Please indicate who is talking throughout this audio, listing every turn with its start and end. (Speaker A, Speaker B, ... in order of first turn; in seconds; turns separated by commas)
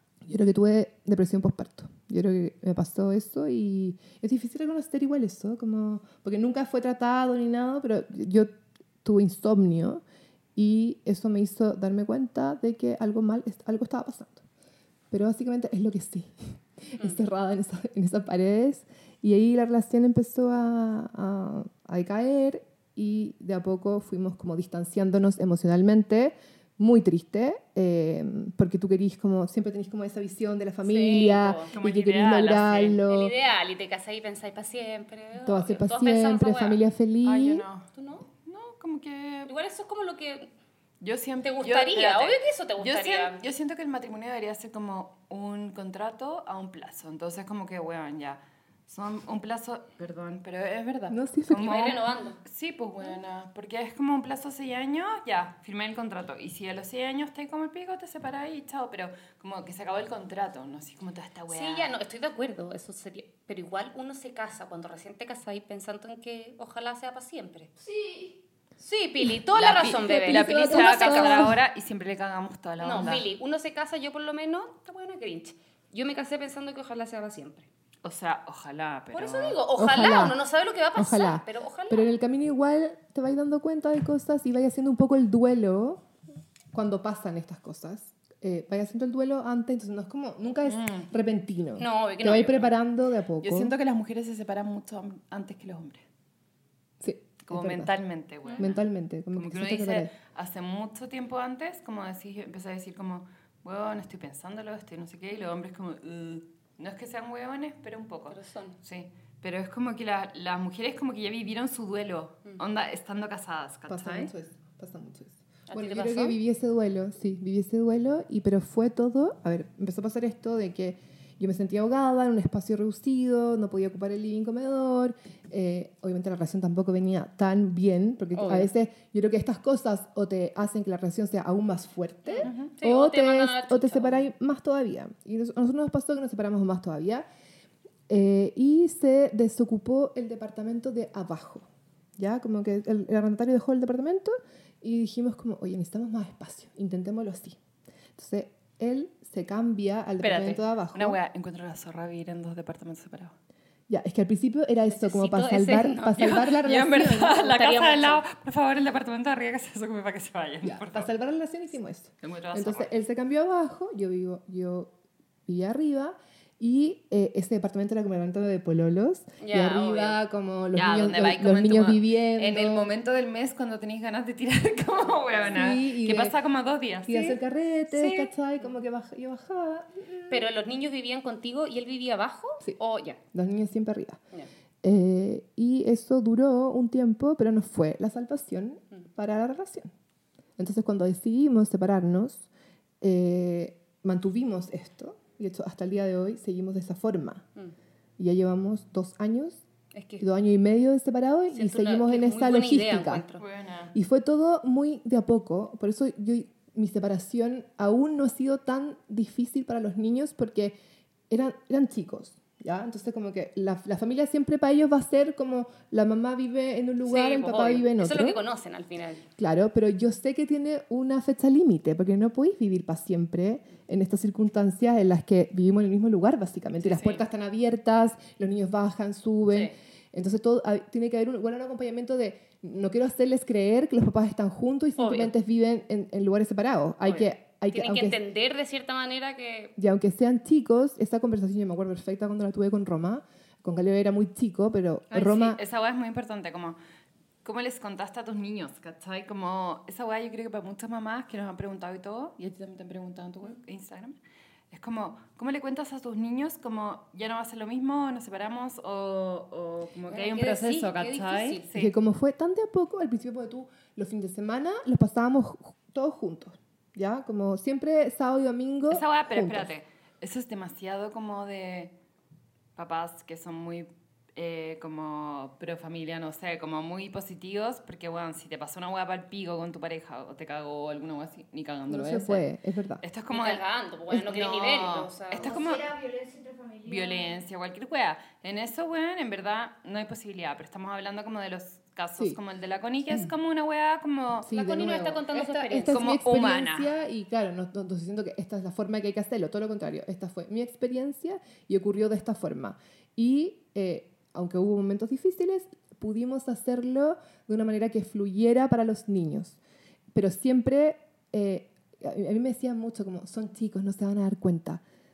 Speaker A: 0.2-10.0, Speaker A: 10.6-14.4, Speaker A: 15.1-33.3, Speaker B: 30.8-31.7, Speaker C: 31.7-33.0, Speaker B: 33.1-36.8, Speaker A: 35.4-37.6, Speaker C: 37.2-37.9, Speaker B: 37.9-38.3, Speaker C: 38.4-39.5, Speaker B: 39.4-40.5, Speaker C: 41.0-61.9, Speaker B: 41.4-43.4, Speaker A: 51.1-51.9, Speaker B: 51.5-52.4, Speaker B: 61.5-67.7, Speaker D: 67.8-68.4, Speaker B: 68.8-71.5, Speaker C: 69.5-73.2, Speaker A: 70.0-71.6, Speaker B: 72.8-77.7, Speaker C: 78.0-79.6, Speaker B: 79.1-82.1, Speaker A: 79.8-80.4, Speaker A: 80.9-86.0, Speaker A: 86.7-93.7, Speaker C: 90.7-91.1, Speaker B: 91.8-92.7, Speaker C: 93.4-96.0, Speaker A: 97.0-97.9, Speaker C: 97.5-114.3, Speaker A: 98.6-100.1, Speaker B: 108.3-108.8, Speaker A: 113.9-137.2, Speaker B: 115.7-116.4, Speaker B: 128.3-128.7, Speaker B: 132.2-134.3, Speaker C: 132.4-132.7, Speaker A: 138.1-147.6, Speaker A: 148.2-151.2, Speaker C: 150.2-153.3, Speaker A: 153.9-157.6, Speaker B: 154.9-156.4, Speaker C: 156.1-161.1, Speaker B: 157.4-158.2, Speaker A: 160.6-164.9, Speaker C: 162.2-162.9, Speaker A: 165.5-172.9, Speaker B: 169.4-170.2, Speaker C: 170.7-177.4, Speaker A: 175.5-176.3, Speaker A: 177.1-180.4, Speaker C: 177.9-178.3, Speaker B: 180.3-183.2, Speaker A: 183.3-184.2, Speaker A: 184.8-189.9, Speaker A: 190.6-192.5, Speaker A: 193.0-197.4, Speaker A: 198.2-199.6, Speaker B: 199.9-200.2, Speaker A: 200.2-203.2, Speaker B: 201.5-203.4, Speaker C: 203.4-203.9, Speaker A: 203.9-210.8, Speaker A: 211.3-218.4, Speaker B: 217.0-219.2, Speaker A: 219.4-238.2, Speaker B: 235.0-235.3, Speaker B: 237.1-239.7, Speaker A: 239.8-245.6, Speaker C: 245.1-246.8, Speaker C: 247.4-254.2, Speaker C: 254.7-261.9, Speaker B: 260.1-261.6, Speaker A: 261.7-269.7, Speaker C: 268.9-271.9, Speaker C: 272.8-282.5, Speaker A: 281.9-283.0, Speaker C: 283.0-285.9, Speaker B: 283.3-285.6, Speaker D: 285.4-287.4, Speaker C: 286.9-294.5, Speaker A: 294.4-309.6, Speaker B: 294.5-296.0, Speaker C: 295.9-296.9, Speaker A: 310.1-314.8